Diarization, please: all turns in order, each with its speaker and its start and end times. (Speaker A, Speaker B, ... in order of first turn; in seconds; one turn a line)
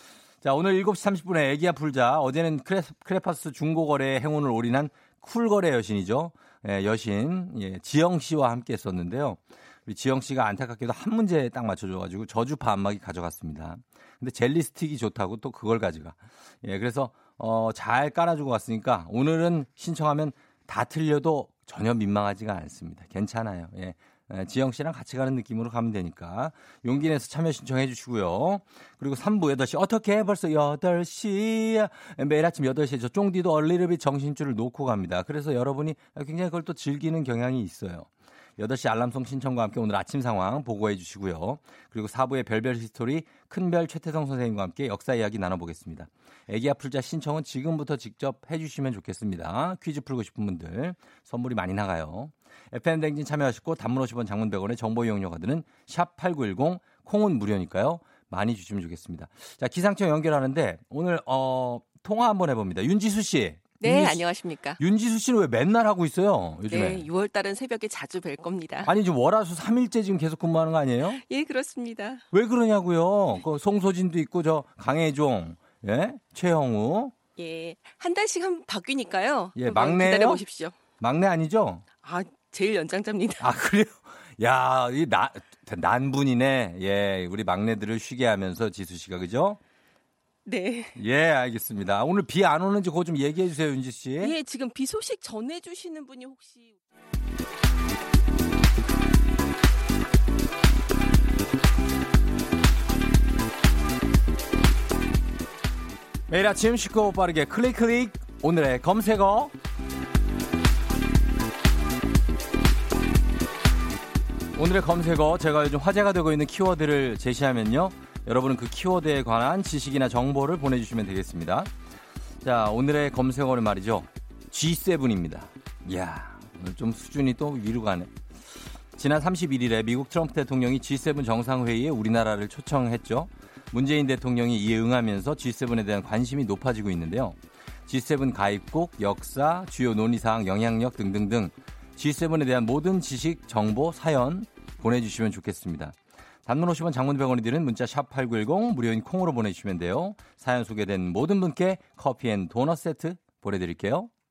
Speaker A: 0.4-64.2
Speaker B: 63.8-64.8
Speaker A: 64.8-67.0
Speaker B: 66.7-68.9
Speaker A: 68.8-71.2
Speaker B: 71.1-72.2
Speaker A: 72.3-77.1
Speaker B: 77.4-80.8
Speaker A: 79.5-80.4
Speaker A: 81.0-81.8
Speaker B: 82.0-83.4
Speaker A: 83.4-89.6
Speaker B: 90.5-91.0
Speaker A: 91.0-94.3
Speaker B: 94.2-96.8
Speaker A: 106.3-109.5
Speaker A: 114.6-121.7
Speaker A: 122.4-128.2
Speaker A: 129.0-154.1